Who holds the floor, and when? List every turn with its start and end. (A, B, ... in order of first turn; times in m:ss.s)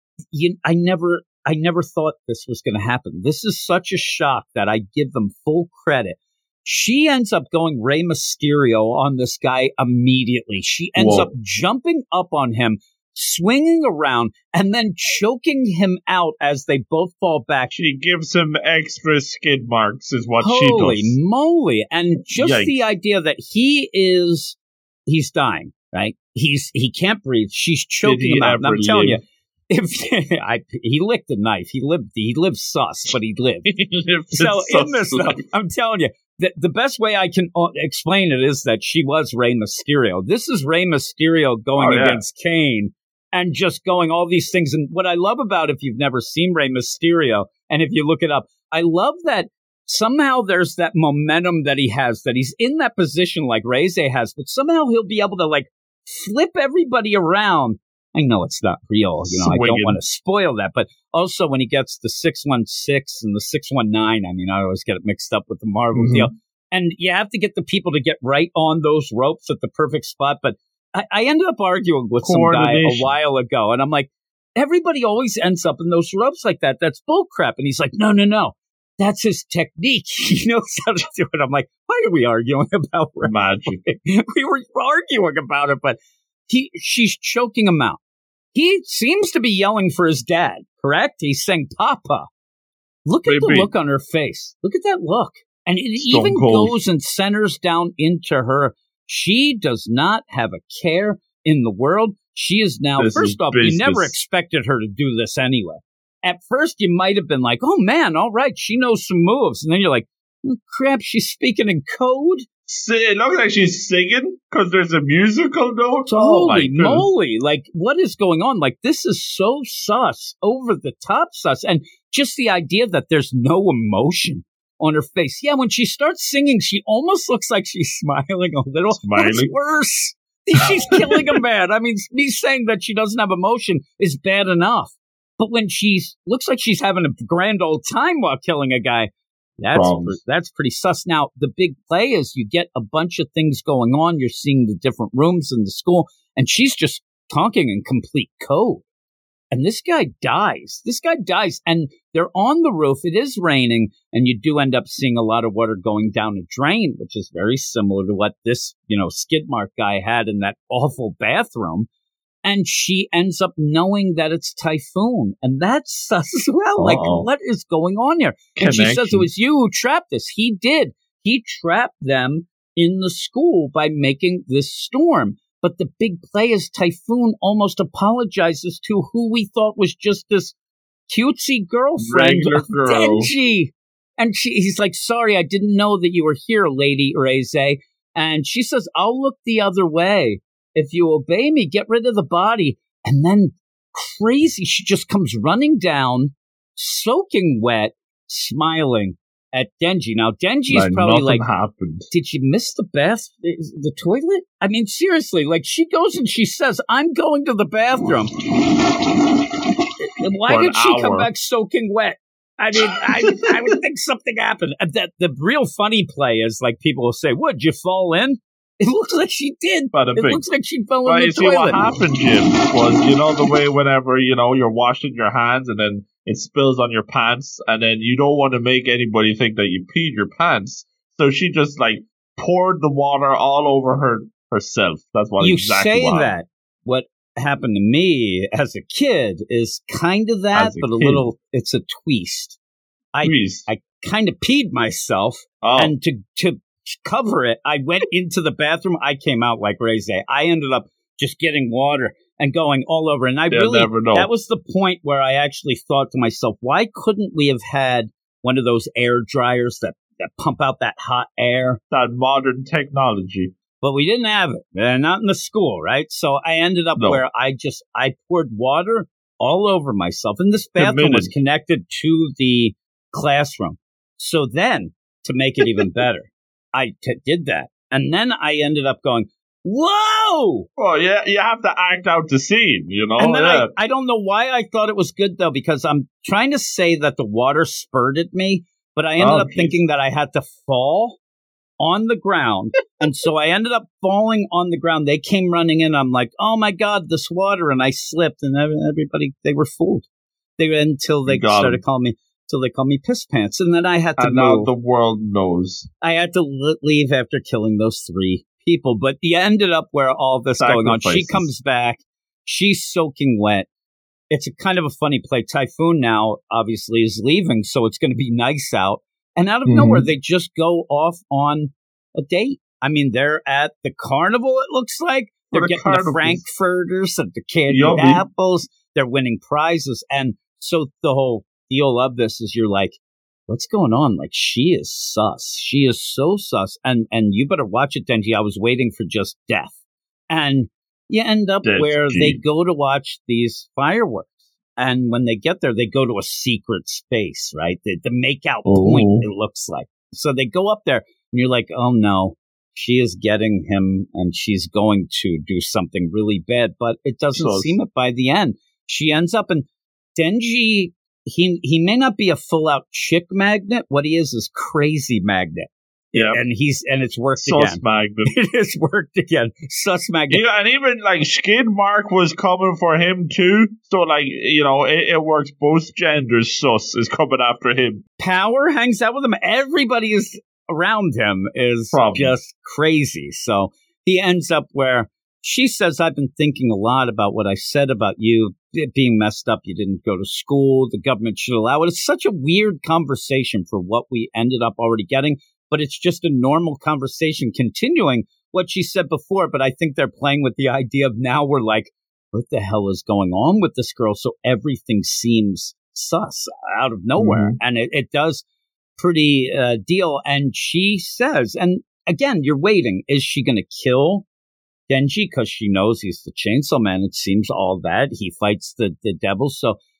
0:00.3-0:17.7 A
0:11.0-0:11.3 B
0:17.7-0:21.2 B
0:20.4-0:33.7 A
0:22.4-0:22.8 B
0:28.0-0:29.2 B
0:33.6-0:35.4 B
0:34.3-1:28.0 A
0:41.8-0:42.2 B
0:59.2-1:00.0 B
1:05.9-1:06.3 B
1:12.2-1:13.1 B
1:23.2-1:23.8 B
1:28.5-1:32.3 A
1:33.0-1:52.4 A
1:33.2-1:33.7 B
1:36.0-1:36.7 B
1:43.0-1:44.2 B
1:52.7-1:57.1 B
1:56.0-2:28.8 A
2:08.9-2:09.5 B
2:10.9-2:11.2 B
2:19.7-2:20.2 B
2:29.5-2:41.9 A
2:42.4-3:00.6 A
2:46.8-2:47.3 B
2:48.6-2:49.3 B
3:01.1-3:21.5 A
3:02.0-3:03.3 B
3:20.7-3:22.1 B
3:22.1-3:28.3 A
3:30.2-3:41.8 A
3:30.5-3:31.3 B
3:32.9-3:33.6 B
3:39.9-3:40.4 B
3:41.0-3:56.4 B
3:55.4-4:02.6 A
4:00.5-4:01.3 B
4:03.1-4:21.8 A
4:03.2-4:03.7 B
4:05.6-4:05.9 B
4:13.5-4:14.3 B
4:21.9-4:23.5 B
4:23.8-4:40.7 A
4:27.0-4:27.2 B
4:30.8-4:31.3 B
4:40.8-4:43.7 B
4:43.2-4:51.2 A
4:49.2-4:49.8 B
4:51.8-5:00.1 A
5:00.6-5:04.7 A
5:01.2-5:01.8 B
5:04.2-5:05.9 B
5:06.0-5:13.7 A
5:10.6-5:11.5 B
5:14.3-5:39.8 A
5:19.6-5:20.0 B
5:25.5-5:26.4 B
5:27.7-5:28.2 B
5:40.3-6:10.4 A
5:41.6-5:42.4 B
5:48.6-5:49.3 B
5:57.3-5:57.8 B
6:06.1-6:06.4 B
6:07.4-6:08.3 B
6:10.3-6:18.0 B
6:18.2-6:48.4 A
6:21.9-6:22.4 B
6:47.2-6:47.6 B
6:49.0-6:54.2 A
6:54.9-6:59.8 A